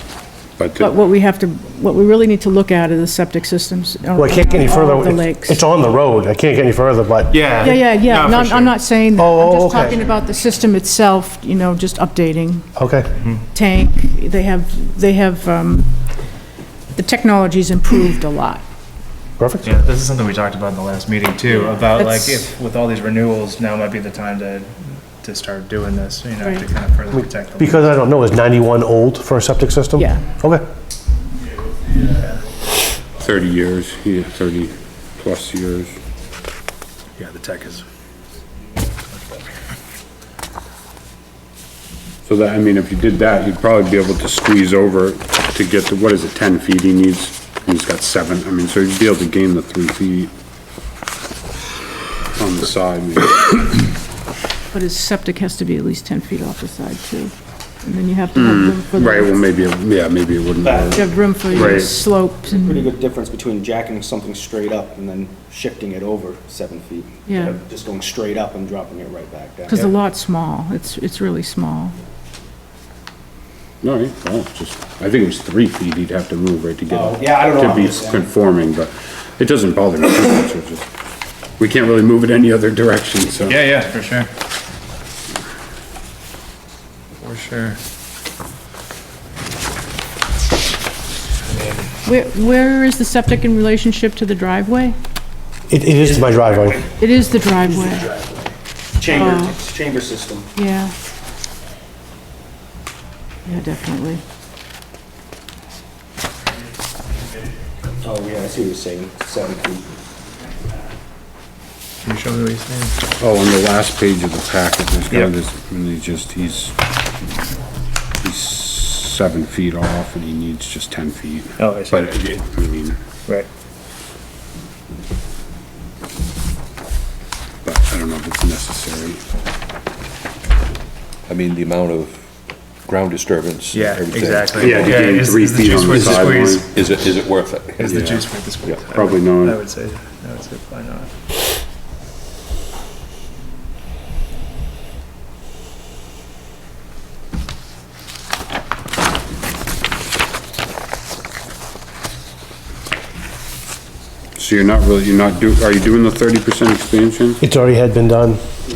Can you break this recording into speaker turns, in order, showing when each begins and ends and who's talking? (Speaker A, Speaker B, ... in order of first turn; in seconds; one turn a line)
Speaker A: 0.6-0.9
Speaker B: 0.8-5.6
Speaker C: 4.2-7.7
Speaker D: 7.3-8.7
Speaker B: 7.6-12.7
Speaker C: 9.2-10.0
Speaker C: 12.8-13.1
Speaker B: 13.5-15.9
Speaker B: 16.9-18.6
Speaker C: 19.4-19.9
Speaker D: 19.6-28.0
Speaker B: 21.5-22.5
Speaker C: 27.6-30.6
Speaker B: 30.0-30.2
Speaker A: 33.2-36.0
Speaker D: 37.2-37.9
Speaker A: 42.3-50.3
Speaker A: 52.4-53.9
Speaker B: 54.7-59.4
Speaker A: 58.3-62.0
Speaker E: 60.6-61.0
Speaker B: 60.9-62.9
Speaker E: 61.5-69.9
Speaker B: 67.3-67.6
Speaker B: 69.7-72.0
Speaker A: 73.8-80.8
Speaker E: 76.9-78.3
Speaker A: 81.6-83.7
Speaker D: 83.5-84.3
Speaker D: 87.2-87.8
Speaker D: 91.5-91.9
Speaker B: 92.0-95.0
Speaker C: 95.7-96.8
Speaker E: 96.0-96.9
Speaker B: 97.0-98.1
Speaker E: 97.7-98.4
Speaker E: 99.0-100.5
Speaker B: 99.1-99.5
Speaker B: 100.5-100.9
Speaker B: 103.5-104.2
Speaker E: 108.0-109.9
Speaker D: 112.0-113.0
Speaker A: 113.2-116.8
Speaker A: 118.2-123.0
Speaker D: 121.6-122.0
Speaker A: 127.7-129.2
Speaker F: 131.3-135.1
Speaker D: 133.7-136.6
Speaker A: 134.6-136.7
Speaker F: 135.9-137.9
Speaker D: 137.8-141.1
Speaker A: 137.9-139.6
Speaker A: 154.3-157.4
Speaker C: 157.4-158.4